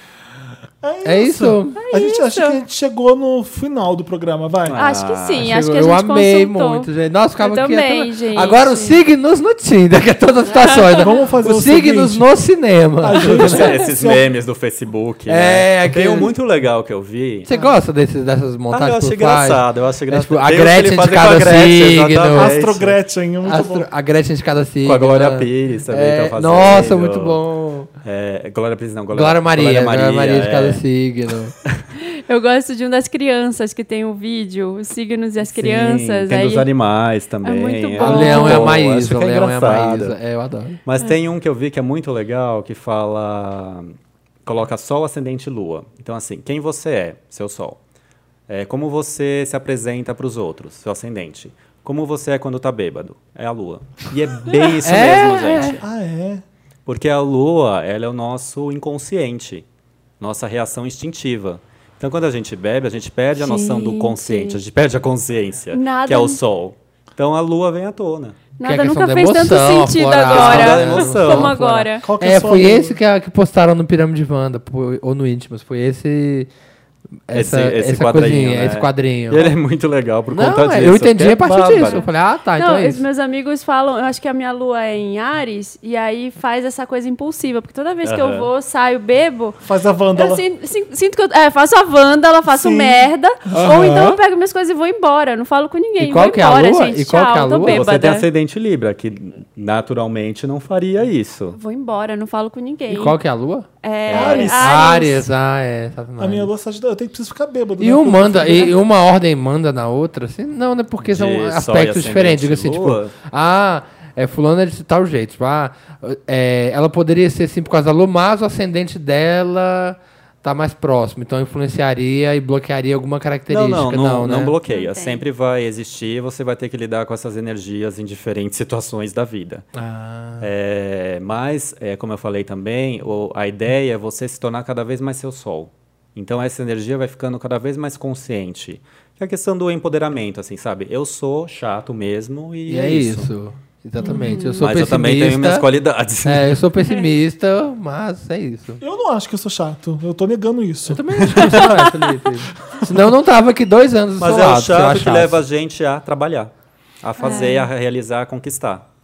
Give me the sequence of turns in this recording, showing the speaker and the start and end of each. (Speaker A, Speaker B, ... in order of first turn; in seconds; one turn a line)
Speaker A: 0.8-4.8
Speaker B: 1.0-1.8
Speaker C: 1.8-2.6
Speaker D: 4.6-5.5
Speaker C: 4.8-9.0
Speaker B: 5.4-13.7
Speaker C: 10.5-11.2
Speaker A: 11.0-12.3
Speaker A: 13.0-14.3
Speaker D: 13.1-17.5
Speaker B: 15.3-16.3
Speaker B: 17.4-22.6
Speaker A: 17.5-17.8
Speaker D: 18.7-23.0
Speaker A: 22.3-23.9
Speaker B: 23.4-27.9
Speaker D: 24.8-27.4
Speaker D: 28.0-30.8
Speaker B: 29.1-31.5
Speaker C: 32.0-36.7
Speaker D: 35.4-40.2
Speaker C: 37.4-38.7
Speaker B: 38.0-40.8
Speaker D: 40.8-43.9
Speaker D: 44.4-47.8
Speaker D: 48.5-55.9
Speaker B: 54.8-55.8
Speaker A: 55.8-56.4
Speaker D: 56.9-59.6
Speaker D: 60.2-68.4
Speaker C: 63.4-64.6
Speaker C: 65.7-66.4
Speaker C: 68.6-72.0
Speaker B: 68.6-76.5
Speaker D: 70.3-71.5
Speaker A: 72.0-73.0
Speaker B: 77.3-79.5
Speaker D: 77.3-82.0
Speaker B: 80.3-83.0
Speaker C: 81.8-89.6
Speaker D: 88.0-88.5
Speaker A: 89.6-90.4
Speaker C: 90.1-98.3
Speaker A: 92.5-93.7
Speaker B: 93.5-94.2
Speaker B: 96.0-97.8
Speaker D: 97.7-101.6
Speaker C: 101.5-103.2
Speaker B: 102.9-103.7
Speaker C: 103.8-105.2
Speaker D: 104.0-104.5
Speaker A: 104.1-104.8
Speaker B: 104.6-106.5
Speaker A: 106.2-108.8
Speaker B: 107.8-124.5
Speaker D: 111.0-113.1
Speaker D: 123.5-129.6
Speaker C: 124.7-125.2
Speaker B: 129.7-130.5
Speaker D: 130.4-143.3
Speaker B: 142.7-145.7
Speaker C: 144.0-144.7
Speaker D: 144.6-146.6
Speaker B: 146.2-148.8
Speaker A: 148.8-151.6
Speaker B: 150.9-155.4
Speaker D: 151.3-151.6
Speaker D: 154.2-158.9
Speaker C: 157.2-157.7